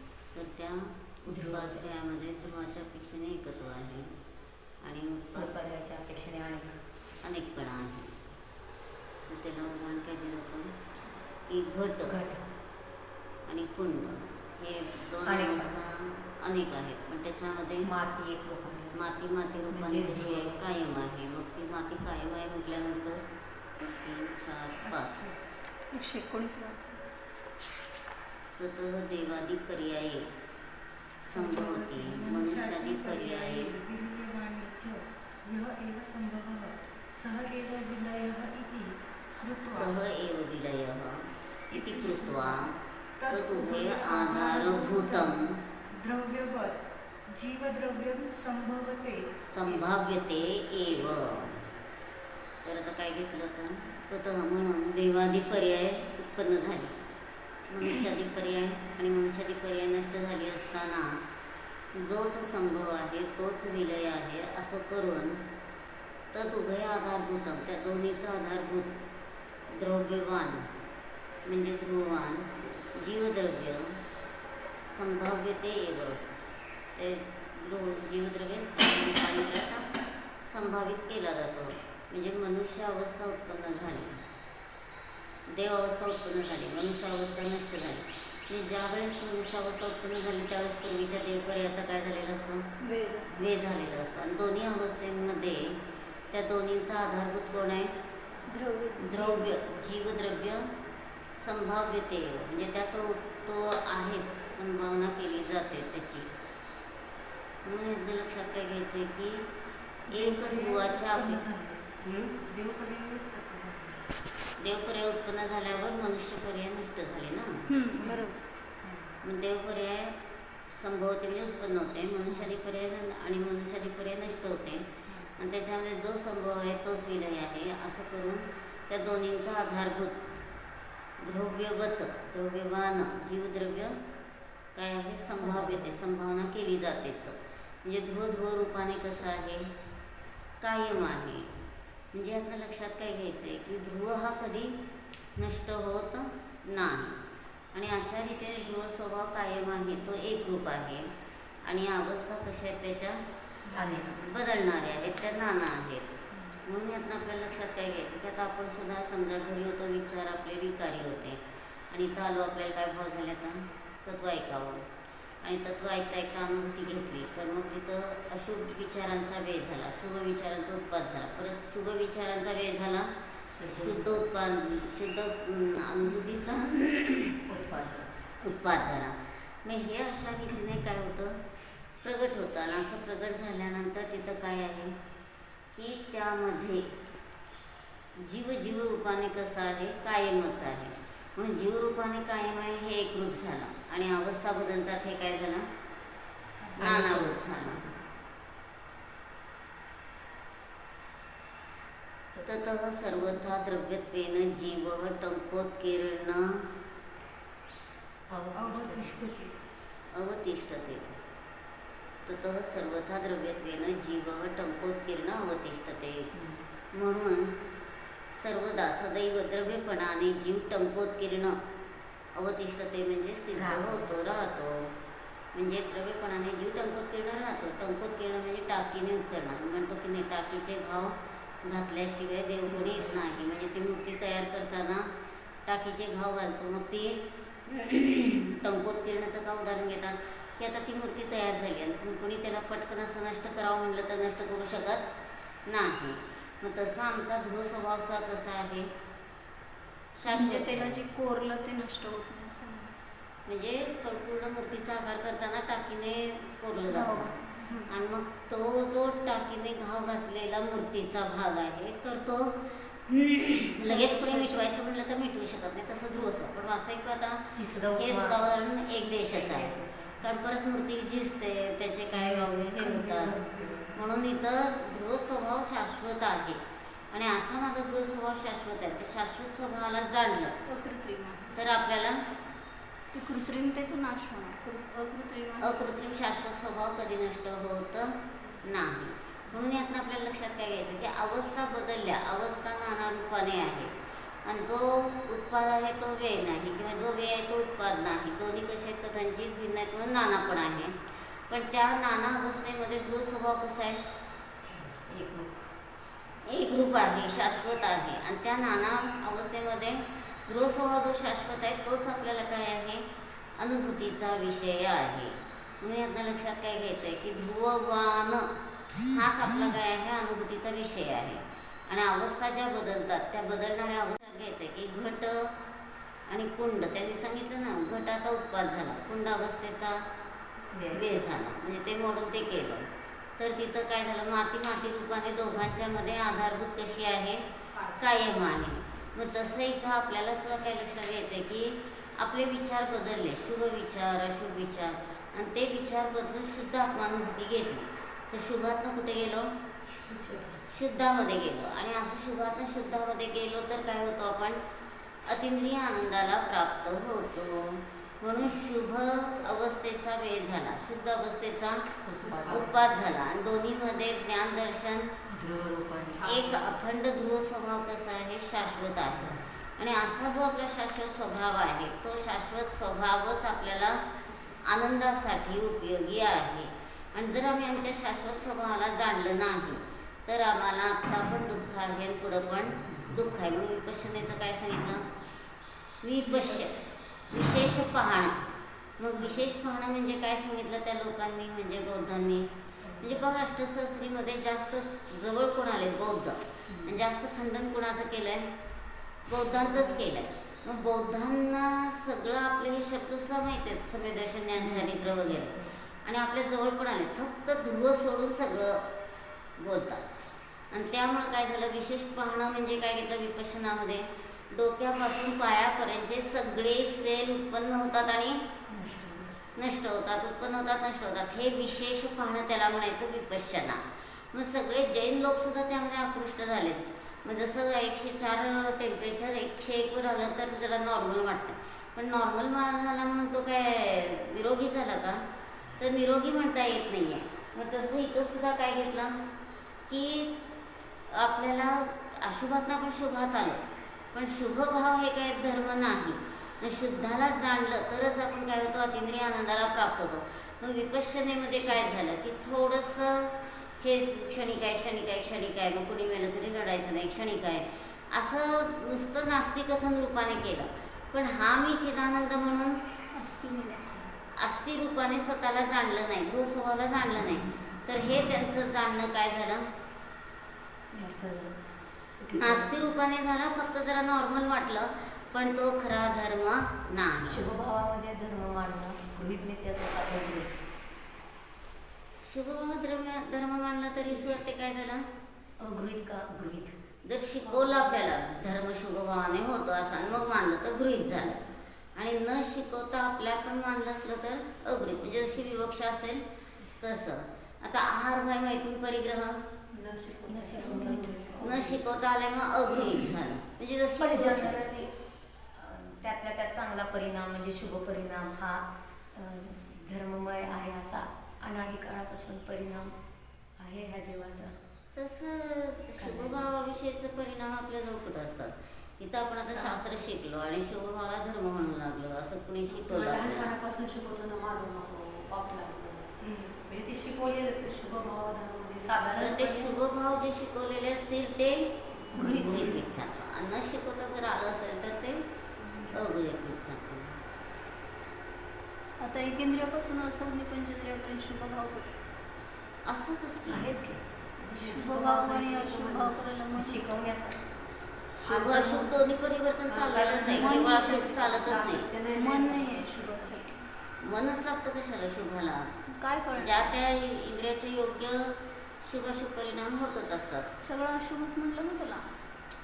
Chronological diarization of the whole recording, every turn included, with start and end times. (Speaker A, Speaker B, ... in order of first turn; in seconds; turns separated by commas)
Speaker A: 0.3-4.1, Speaker B: 1.3-1.8, Speaker A: 4.8-5.5, Speaker B: 5.4-6.8, Speaker A: 7.2-8.1, Speaker A: 9.3-10.7, Speaker A: 11.5-12.2, Speaker B: 12.1-12.4, Speaker A: 13.5-17.9, Speaker B: 15.2-15.7, Speaker B: 17.8-19.0, Speaker A: 18.9-23.2, Speaker B: 19.7-20.6, Speaker A: 23.8-25.3, Speaker C: 24.9-25.4, Speaker D: 25.9-27.0, Speaker A: 28.6-30.3, Speaker A: 31.2-33.7, Speaker C: 31.3-40.0, Speaker A: 39.6-42.7, Speaker C: 41.7-42.6, Speaker C: 43.2-45.4, Speaker A: 43.3-45.5, Speaker C: 45.9-46.8, Speaker C: 47.3-50.0, Speaker A: 49.5-51.5, Speaker A: 52.6-57.0, Speaker A: 57.7-61.2, Speaker A: 62.0-65.4, Speaker A: 66.3-68.9, Speaker A: 69.7-70.7, Speaker A: 71.5-74.0, Speaker A: 74.8-76.3, Speaker A: 77.0-79.8, Speaker A: 80.4-84.2, Speaker A: 85.5-92.7, Speaker D: 92.8-93.3, Speaker A: 93.3-95.8, Speaker A: 96.3-97.9, Speaker D: 98.5-99.5, Speaker A: 99.0-100.7, Speaker A: 101.4-106.3, Speaker A: 107.7-109.5, Speaker C: 110.1-111.8, Speaker A: 110.1-111.4, Speaker A: 112.0-112.3, Speaker C: 112.4-114.0, Speaker A: 114.6-117.6, Speaker D: 117.7-118.4, Speaker A: 119.2-120.2, Speaker A: 120.7-130.2, Speaker A: 131.2-134.0, Speaker A: 134.8-139.7, Speaker B: 135.4-135.9, Speaker A: 140.6-141.5, Speaker A: 142.1-144.7, Speaker A: 145.4-147.2, Speaker A: 147.7-151.1, Speaker A: 151.7-153.2, Speaker B: 153.7-154.2, Speaker A: 154.1-156.1, Speaker A: 156.7-164.8, Speaker A: 165.4-173.1, Speaker B: 173.5-174.2, Speaker A: 173.7-177.3, Speaker B: 177.5-178.2, Speaker A: 178.4-181.4, Speaker A: 182.0-185.0, Speaker A: 185.8-186.8, Speaker A: 188.3-195.7, Speaker B: 196.7-198.0, Speaker A: 196.8-197.8, Speaker B: 202.3-203.5, Speaker A: 202.4-206.5, Speaker B: 208.3-209.2, Speaker C: 208.5-209.6, Speaker A: 210.1-211.0, Speaker A: 212.3-216.3, Speaker B: 216.3-216.6, Speaker A: 216.9-217.5, Speaker A: 218.4-221.6, Speaker A: 222.4-224.9, Speaker B: 223.5-224.2, Speaker A: 225.6-235.1, Speaker B: 232.7-233.2, Speaker A: 235.7-245.1, Speaker A: 245.7-248.9, Speaker A: 250.2-250.9, Speaker D: 250.3-253.1, Speaker A: 253.5-257.3, Speaker D: 256.9-257.9, Speaker A: 257.9-273.4, Speaker D: 263.8-264.7, Speaker B: 267.6-268.4, Speaker B: 269.2-270.2, Speaker B: 272.1-274.0, Speaker A: 273.9-276.6, Speaker A: 277.1-280.5, Speaker D: 280.6-281.6, Speaker A: 281.6-282.2, Speaker D: 283.1-285.9, Speaker A: 285.6-293.9, Speaker A: 294.4-301.0, Speaker A: 301.5-304.0, Speaker B: 304.8-305.7, Speaker A: 306.5-313.0, Speaker A: 313.6-318.5, Speaker A: 319.0-325.5, Speaker A: 326.3-330.0, Speaker B: 330.7-331.3, Speaker A: 330.9-332.9, Speaker A: 333.4-349.5, Speaker B: 350.1-350.6, Speaker A: 350.7-354.6, Speaker A: 355.3-361.8, Speaker B: 362.0-362.7, Speaker A: 362.4-365.1, Speaker B: 365.3-366.7, Speaker A: 366.2-374.0, Speaker A: 374.6-385.0, Speaker A: 386.0-386.8, Speaker A: 387.3-388.4, Speaker A: 389.0-392.5, Speaker B: 392.9-393.3, Speaker A: 393.0-398.5, Speaker B: 396.7-397.0, Speaker A: 399.3-408.8, Speaker B: 404.6-405.8, Speaker A: 409.6-410.0, Speaker A: 410.7-418.4, Speaker B: 418.7-419.3, Speaker A: 419.6-423.8, Speaker A: 424.3-435.2, Speaker A: 435.8-439.1, Speaker A: 439.9-440.3, Speaker A: 441.1-443.6, Speaker A: 444.1-462.8, Speaker D: 463.1-463.9, Speaker A: 464.4-469.7, Speaker B: 470.9-471.6, Speaker B: 472.1-472.7, Speaker A: 472.4-477.4, Speaker B: 477.2-480.6, Speaker A: 482.3-485.1, Speaker B: 485.6-486.8, Speaker A: 487.1-491.4, Speaker A: 492.0-496.2, Speaker A: 496.8-499.4, Speaker E: 499.7-501.8, Speaker B: 500.3-501.5, Speaker D: 500.6-501.2, Speaker A: 501.4-504.6, Speaker B: 504.0-504.9, Speaker B: 505.5-512.9, Speaker B: 513.6-514.5, Speaker A: 515.0-523.5, Speaker B: 516.0-516.5, Speaker E: 519.4-519.8, Speaker E: 522.7-529.8, Speaker A: 529.2-535.2, Speaker D: 532.1-532.8, Speaker E: 532.2-532.7, Speaker B: 532.2-532.7, Speaker A: 535.9-537.2, Speaker D: 539.0-542.0, Speaker A: 542.9-543.7, Speaker B: 543.5-544.0, Speaker E: 544.4-546.2, Speaker D: 544.5-546.9, Speaker B: 546.5-547.4, Speaker A: 548.2-551.9, Speaker E: 548.2-549.0, Speaker E: 549.7-553.4, Speaker D: 550.2-551.2, Speaker D: 552.1-553.7, Speaker A: 554.0-555.7, Speaker D: 555.9-556.8, Speaker A: 556.4-560.5, Speaker D: 560.6-562.1